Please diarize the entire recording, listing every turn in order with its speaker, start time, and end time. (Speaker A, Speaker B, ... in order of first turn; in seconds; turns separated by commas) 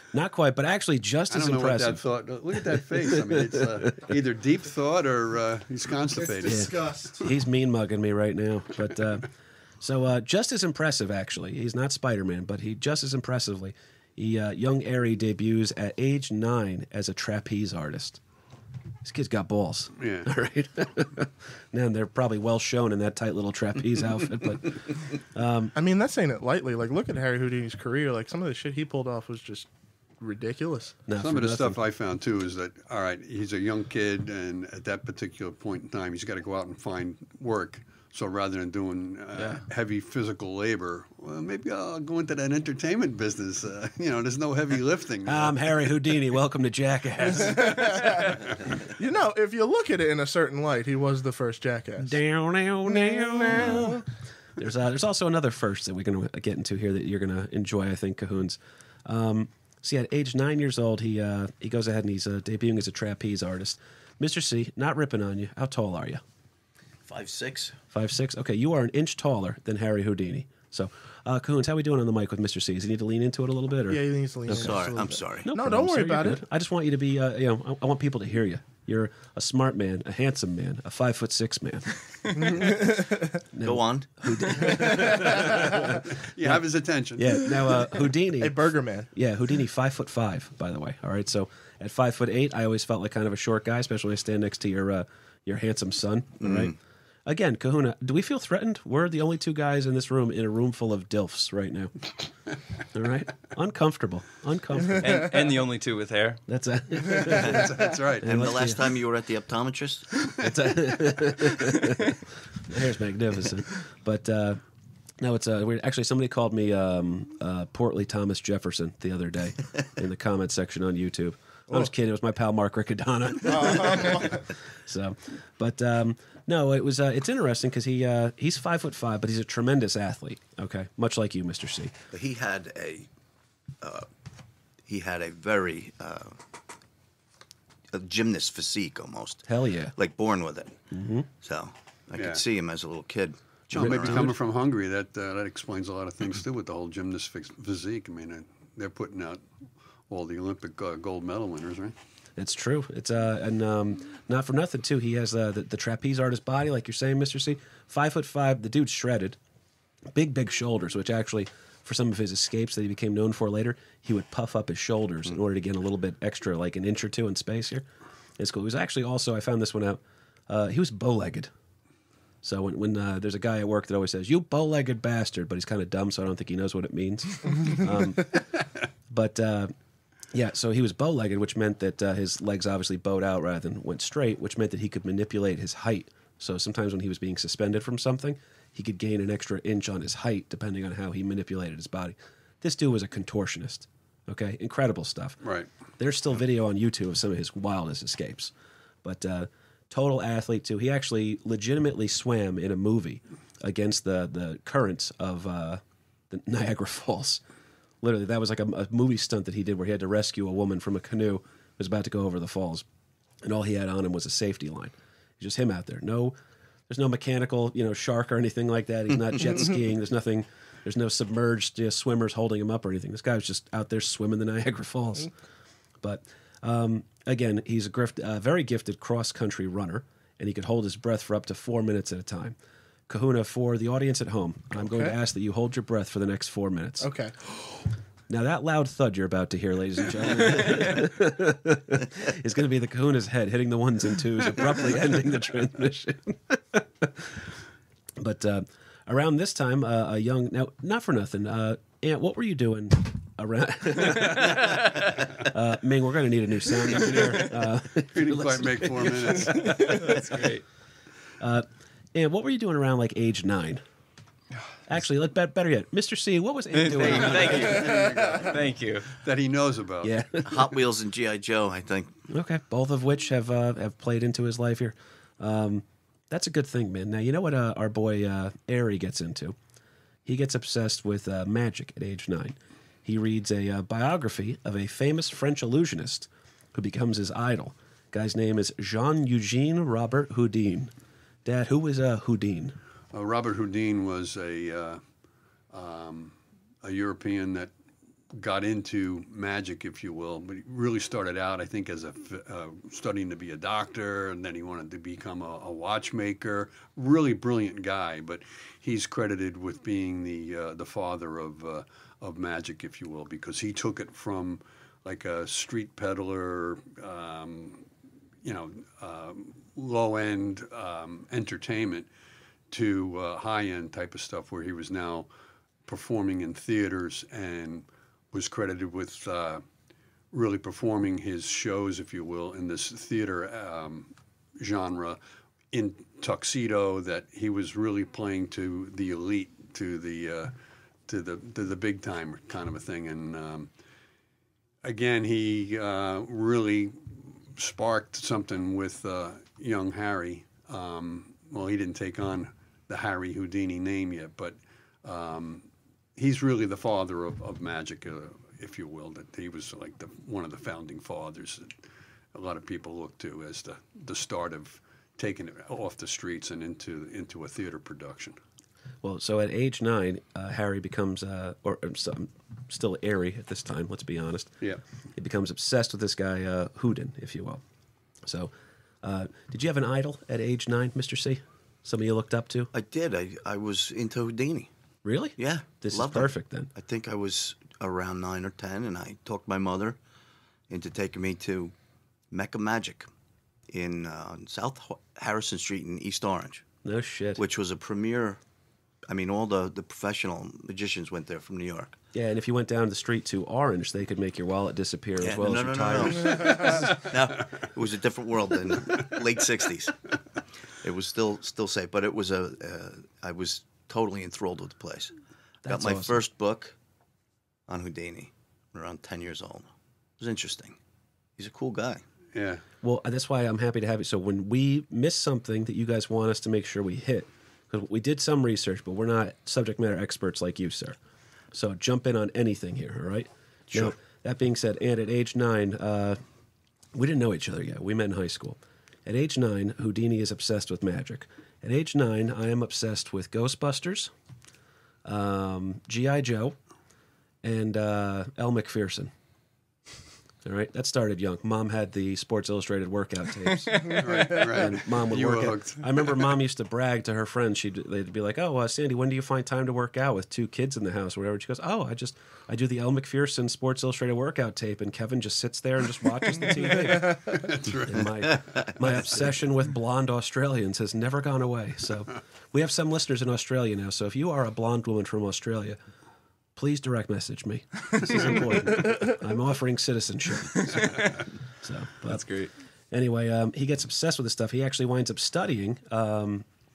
Speaker A: 0.1-2.0, Speaker B: 1.3-6.7, Speaker A: 2.7-3.9, Speaker C: 6.2-7.3, Speaker A: 6.4-9.3, Speaker A: 9.8-18.2, Speaker A: 19.0-25.7, Speaker B: 20.0-20.3, Speaker C: 25.8-29.7, Speaker C: 30.2-31.0, Speaker A: 31.1-31.8, Speaker B: 31.2-45.7, Speaker D: 39.4-39.6, Speaker A: 45.2-48.0, Speaker C: 47.4-48.4, Speaker C: 49.0-52.2, Speaker A: 52.0-54.0, Speaker C: 52.8-54.0, Speaker A: 54.6-66.2, Speaker E: 67.0-67.8, Speaker A: 67.9-74.8, Speaker C: 73.9-76.4, Speaker E: 74.5-75.5, Speaker A: 75.4-81.9, Speaker C: 82.3-83.4, Speaker A: 83.5-86.6, Speaker E: 83.6-84.1, Speaker C: 84.6-85.8, Speaker B: 85.4-87.6, Speaker A: 87.1-96.7, Speaker C: 88.4-89.1, Speaker E: 96.4-96.7, Speaker A: 97.2-101.9, Speaker A: 102.9-105.3, Speaker D: 105.0-106.4, Speaker A: 106.5-107.7, Speaker E: 107.2-110.1, Speaker B: 107.4-108.2, Speaker A: 108.2-108.8, Speaker A: 110.4-114.6, Speaker A: 115.2-131.9, Speaker C: 123.4-124.5, Speaker E: 132.1-133.1, Speaker E: 133.8-134.1, Speaker E: 134.8-136.4, Speaker E: 137.9-139.4, Speaker A: 139.4-139.9, Speaker E: 139.9-140.8, Speaker A: 140.9-141.3, Speaker E: 141.4-144.3, Speaker B: 142.1-142.4, Speaker A: 143.7-144.3, Speaker B: 143.7-149.4, Speaker B: 150.1-151.9, Speaker A: 152.4-159.4, Speaker A: 160.1-167.8, Speaker A: 168.4-171.5, Speaker A: 172.4-178.4, Speaker A: 179.1-179.7, Speaker A: 180.3-195.4, Speaker B: 195.4-195.7, Speaker A: 196.0-198.5, Speaker A: 199.0-207.4, Speaker A: 208.0-212.8, Speaker A: 213.4-216.3, Speaker A: 216.9-225.3, Speaker A: 226.0-232.6, Speaker A: 233.1-237.1, Speaker C: 234.8-235.1, Speaker C: 237.0-237.3, Speaker A: 238.3-247.5, Speaker A: 248.2-260.1, Speaker B: 258.1-260.0, Speaker D: 259.6-260.6, Speaker A: 261.4-263.8, Speaker A: 264.9-268.0, Speaker D: 266.7-269.1, Speaker B: 267.3-270.2, Speaker C: 267.8-268.4, Speaker E: 268.0-268.4, Speaker A: 270.0-270.7, Speaker E: 270.4-272.1, Speaker A: 272.3-279.6, Speaker A: 280.2-290.9, Speaker A: 291.4-292.8, Speaker B: 293.1-295.0, Speaker B: 295.7-297.7, Speaker B: 298.3-317.9, Speaker B: 318.4-322.1, Speaker B: 322.7-325.3, Speaker B: 325.9-329.6, Speaker B: 330.3-335.2, Speaker B: 335.7-340.5, Speaker B: 341.1-343.7, Speaker B: 344.8-361.7, Speaker B: 362.3-368.4, Speaker A: 369.0-374.6, Speaker A: 375.1-377.6, Speaker A: 378.2-378.5, Speaker A: 379.0-382.7, Speaker E: 382.7-384.7, Speaker A: 385.0-386.7, Speaker E: 385.4-390.0, Speaker E: 390.7-391.7, Speaker E: 392.3-393.1, Speaker E: 393.7-396.6, Speaker A: 396.8-397.4, Speaker E: 397.4-398.4, Speaker E: 399.1-402.0, Speaker A: 402.1-406.8, Speaker E: 405.2-409.9, Speaker B: 406.5-406.8, Speaker E: 410.8-415.1, Speaker A: 415.6-416.2, Speaker E: 415.7-416.7, Speaker E: 417.7-420.8, Speaker E: 421.4-422.0, Speaker B: 422.3-422.6, Speaker A: 422.8-431.0, Speaker A: 431.5-436.2, Speaker A: 436.9-444.1, Speaker A: 445.0-446.6, Speaker A: 447.4-449.1, Speaker A: 450.4-475.8, Speaker B: 453.9-456.4, Speaker B: 466.9-468.1, Speaker E: 468.3-468.9, Speaker A: 476.6-481.0, Speaker A: 481.6-482.3, Speaker D: 482.1-482.5, Speaker A: 482.9-486.4